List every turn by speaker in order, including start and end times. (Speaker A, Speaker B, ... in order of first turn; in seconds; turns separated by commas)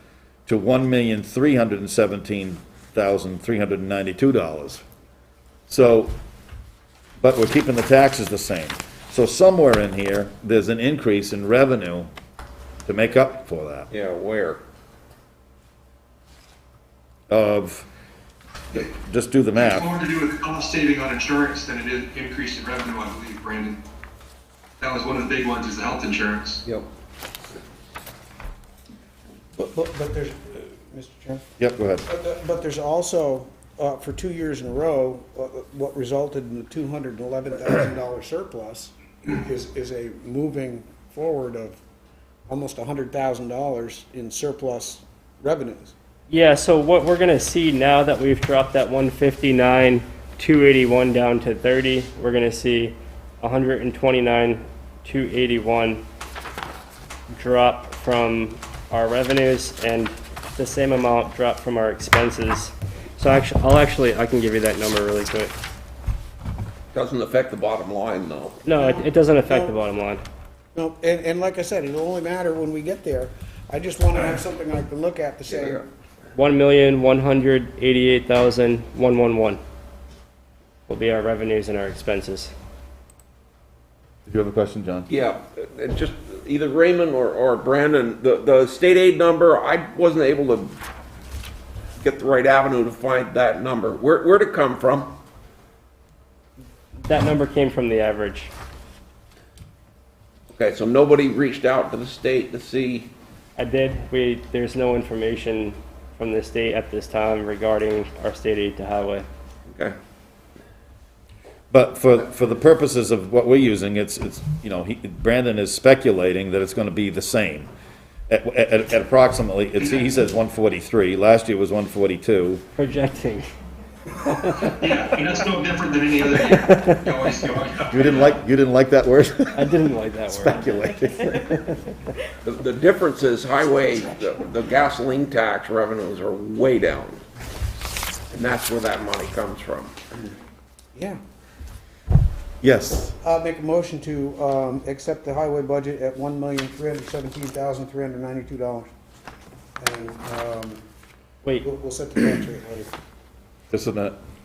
Speaker A: 0.5-4.8, Speaker A: 5.7-6.2, Speaker A: 7.2-12.1, Speaker A: 12.8-13.9, Speaker B: 13.9-14.6, Speaker A: 17.3-17.9, Speaker A: 18.7-19.9, Speaker C: 19.6-23.8, Speaker C: 24.8-26.6, Speaker D: 29.5-31.4, Speaker A: 31.6-32.0, Speaker D: 32.0-41.8, Speaker D: 42.5-45.9, Speaker E: 46.3-56.0, Speaker E: 57.3-65.5, Speaker B: 66.9-68.6, Speaker E: 68.6-70.2, Speaker D: 68.7-69.8, Speaker D: 70.7-75.8, Speaker E: 76.3-79.6, Speaker E: 80.9-82.5, Speaker A: 84.3-85.1, Speaker B: 85.1-90.8, Speaker B: 92.0-95.1, Speaker E: 97.0-98.5, Speaker B: 100.5-103.1, Speaker E: 103.5-109.2, Speaker B: 109.7-110.0, Speaker A: 111.7-117.7, Speaker A: 118.3-122.6, Speaker C: 119.8-120.1, Speaker E: 122.8-123.5, Speaker E: 124.2-124.8, Speaker C: 124.7-128.2, Speaker E: 126.3-127.0, Speaker A: 127.9-129.7, Speaker E: 129.5-130.6, Speaker A: 130.3-131.5, Speaker E: 131.2-131.8, Speaker B: 132.4-137.2, Speaker B: 138.3-139.9, Speaker A: 142.6-143.1, Speaker D: 143.2-148.9, Speaker D: 149.8-150.8, Speaker D: 151.6-152.9, Speaker A: 153.7-154.2